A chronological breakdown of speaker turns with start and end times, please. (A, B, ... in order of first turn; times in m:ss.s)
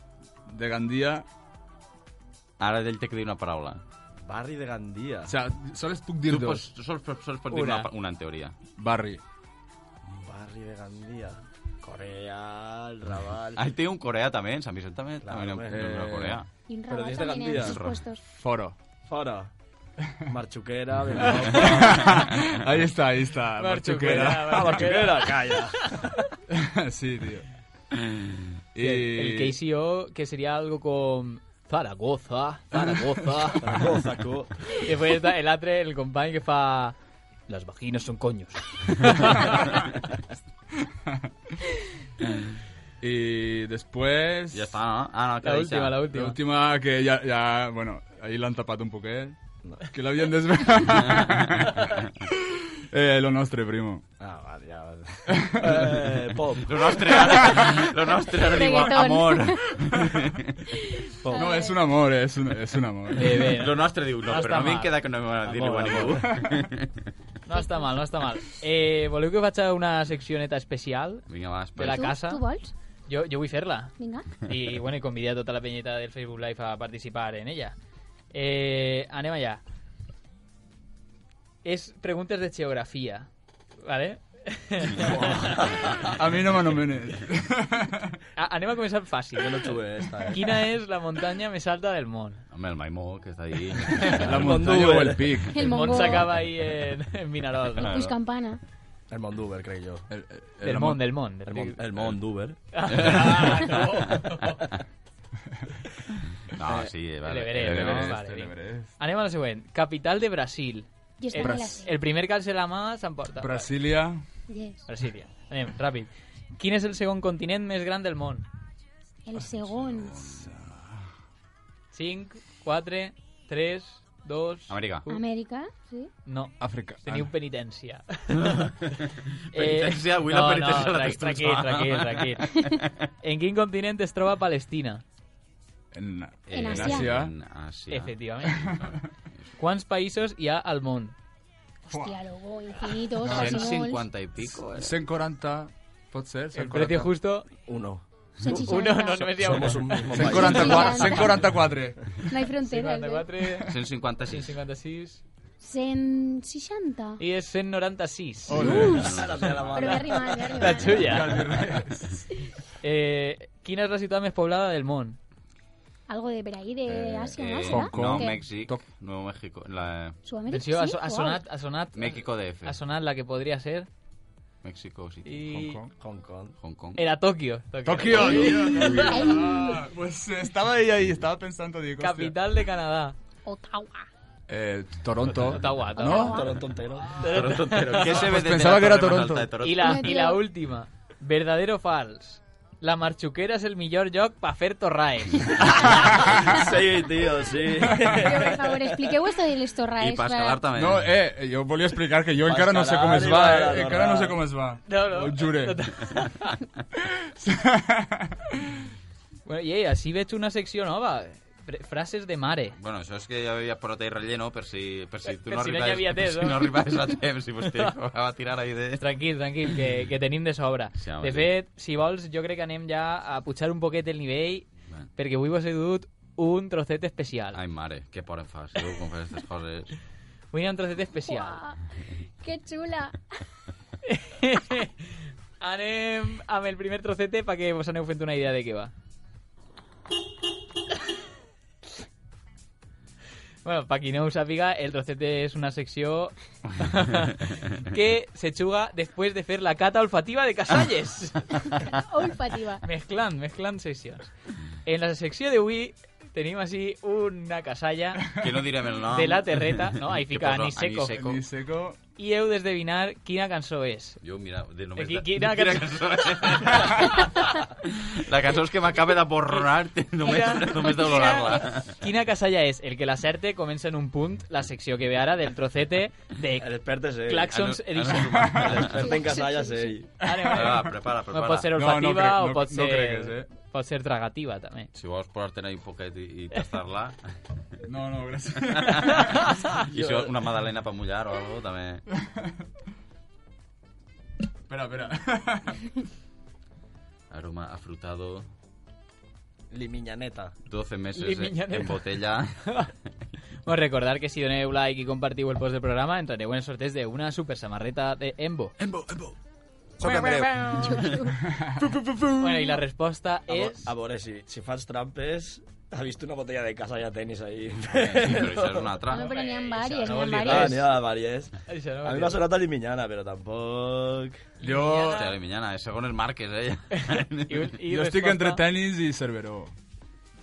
0:00.5-0:01.2 A
0:02.6-0:03.8 B
0:04.2-0:05.3 C
0:05.3-0:06.7 A
0:06.3-0:08.5 B
0:07.5-0:07.9 D
0:08.8-0:09.2 A
0:10.1-0:13.6 C
0:13.6-0:16.4 B
0:15.2-0:15.8 C
0:15.7-0:16.4 A
0:16.7-0:18.2 E
0:16.9-0:17.8 C
0:17.6-0:18.0 B
0:18.4-0:18.7 A
0:19.0-0:19.5 C
0:20.3-0:22.2 C
0:21.2-0:21.6 D
0:21.5-0:24.9 A
0:23.6-0:25.9 D
0:24.3-0:25.8 C
0:26.5-0:27.4 A
0:28.7-0:29.5 A
0:28.8-0:33.8 D
0:32.7-0:34.5 C
0:34.8-0:36.9 D
0:37.5-0:39.9 D
0:43.0-0:44.7 A
0:44.5-0:46.0 B
0:45.4-0:46.4 D
0:46.1-0:54.0 A
0:54.2-0:56.8 C
0:55.3-0:56.1 A
0:56.6-1:00.5 B
0:57.3-0:59.7 E
0:57.4-0:57.6 A
1:01.2-1:01.8 E
1:01.3-1:03.5 A
1:03.2-1:04.9 D
1:03.4-1:07.0 B
1:05.4-1:06.3 C
1:07.5-1:11.2 D
1:07.5-1:07.9 E
1:11.3-1:12.1 B
1:11.8-1:12.4 D
1:11.8-1:12.7 E
1:13.1-1:13.9 D
1:14.0-1:14.3 E
1:14.5-1:17.7 D
1:18.3-1:19.6 D
1:21.6-1:23.3 D
1:23.8-1:25.6 D
1:24.9-1:25.9 C
1:26.1-1:28.1 A
1:28.4-1:29.8 D
1:29.4-1:30.5 C
1:30.3-1:32.4 D
1:32.5-1:34.5 B
1:34.2-1:35.9 A
1:34.3-1:35.4 C
1:35.5-1:36.3 E
1:35.6-1:38.0 D
1:37.8-1:38.1 B
1:37.8-1:38.6 E
1:39.1-1:40.0 C
1:40.1-1:41.0 A
1:40.6-1:41.8 D
1:41.4-1:42.6 C
1:42.7-1:44.5 D
1:42.9-1:43.7 B
1:46.5-1:48.1 B
1:47.2-1:53.7 D
1:47.6-1:48.9 A
1:51.2-1:51.9 E
1:51.4-1:51.8 A
1:53.4-1:54.2 A
1:54.5-1:54.8 E
1:54.9-1:58.4 D
1:59.2-2:00.2 E
1:59.4-2:00.8 A
2:01.9-2:05.2 D
2:04.7-2:05.1 B
2:05.1-2:06.1 E
2:06.2-2:08.7 D
2:06.6-2:07.3 A
2:08.3-2:12.9 B
2:09.5-2:12.4 D
2:12.4-2:12.9 E
2:13.2-2:15.0 D
2:15.9-2:17.3 A
2:16.5-2:18.9 B
2:16.5-2:17.1 E
2:17.9-2:18.7 D
2:18.5-2:19.0 A
2:19.6-2:21.1 D
2:21.9-2:24.1 E
2:21.9-2:22.1 A
2:22.8-2:23.9 D
2:23.2-2:23.7 A
2:23.3-2:24.9 B
2:24.7-2:27.1 A
2:26.5-2:27.5 D
2:27.6-2:31.3 C
2:28.4-2:29.5 E
2:28.5-2:30.4 D
2:30.1-2:32.0 A
2:30.4-2:31.4 E
2:32.3-2:33.3 E
2:32.6-2:33.7 D
2:33.6-2:34.5 B
2:34.3-2:35.2 D
2:35.6-2:37.2 E
2:37.2-2:38.8 D
2:38.5-2:39.1 A
2:38.5-2:39.2 E
2:38.6-2:40.0 B
2:38.7-2:40.9 C
2:39.7-2:41.2 E
2:40.6-2:41.6 D
2:41.0-2:42.3 A
2:42.8-2:45.2 D
2:46.1-2:48.4 E
2:46.9-2:50.2 B
2:47.7-2:48.8 A
2:50.2-2:51.4 E
2:50.5-2:53.9 D
2:51.9-2:52.8 B
2:54.6-2:55.4 B
2:55.2-2:55.8 D
2:55.4-2:55.9 A
2:55.9-2:56.6 C
2:56.6-2:57.0 B
2:57.0-2:59.1 D
2:57.8-3:02.3 A
2:58.2-2:59.7 B
2:58.9-2:59.8 E
3:02.0-3:03.2 D
3:03.4-3:04.1 E
3:04.5-3:06.3 A
3:05.4-3:06.4 D
3:06.0-3:06.5 E
3:06.1-3:07.2 C
3:07.2-3:08.2 D
3:07.2-3:10.2 B
3:08.0-3:09.5 A
3:09.6-3:16.2 D
3:09.8-3:10.4 E
3:15.7-3:18.8 C
3:16.0-3:16.3 A
3:18.0-3:20.6 E
3:20.0-3:21.1 B
3:20.8-3:25.8 A
3:22.4-3:24.4 C
3:24.8-3:26.5 D
3:27.2-3:28.3 A
3:29.4-3:32.8 D
3:32.8-3:39.0 B
3:35.2-3:36.7 D
3:39.0-3:47.6 D
3:40.9-3:41.5 B
3:47.5-3:49.9 B
3:50.5-3:51.6 D
3:51.2-3:51.8 E
3:52.4-3:53.2 E
3:54.1-3:54.9 D
3:55.6-3:58.9 D
4:03.6-4:06.3 D
4:06.8-4:07.3 D
4:07.9-4:11.6 D
4:11.8-4:12.8 E
4:12.8-4:14.3 D
4:14.8-4:18.3 D
4:18.4-4:21.4 B
4:19.1-4:21.1 D
4:21.1-4:22.0 A
4:22.2-4:24.2 D
4:24.2-4:31.9 B
4:25.0-4:27.0 D
4:30.2-4:36.7 D
4:36.6-4:37.5 C
4:37.2-4:38.3 D
4:37.5-4:39.3 B
4:38.3-4:38.7 A
4:38.5-4:40.1 C
4:39.0-4:39.9 E
4:40.2-4:44.9 D
4:40.3-4:40.9 A
4:40.4-4:41.7 B
4:41.7-4:43.5 A
4:44.9-4:47.2 B
4:47.8-4:49.5 A
4:48.8-4:49.2 B
4:49.9-4:52.0 B
4:50.0-4:50.3 C
4:54.7-4:55.8 A
4:57.3-4:58.5 B
4:59.7-5:00.5 C
5:00.7-5:02.6 B
5:01.1-5:02.0 D
5:03.6-5:08.7 D
5:08.8-5:09.1 B
5:10.0-5:11.4 E
5:10.0-5:10.4 D
5:10.3-5:11.1 B
5:11.5-5:11.8 A
5:11.8-5:12.5 C
5:12.4-5:13.9 D
5:13.5-5:18.9 C
5:17.9-5:19.3 B
5:19.1-5:20.8 E
5:19.1-5:20.9 D
5:20.4-5:21.5 C
5:21.7-5:22.4 D
5:22.0-5:24.4 C
5:24.6-5:25.2 A
5:24.6-5:25.3 D
5:25.1-5:27.7 B
5:26.9-5:28.6 D
5:27.9-5:29.7 A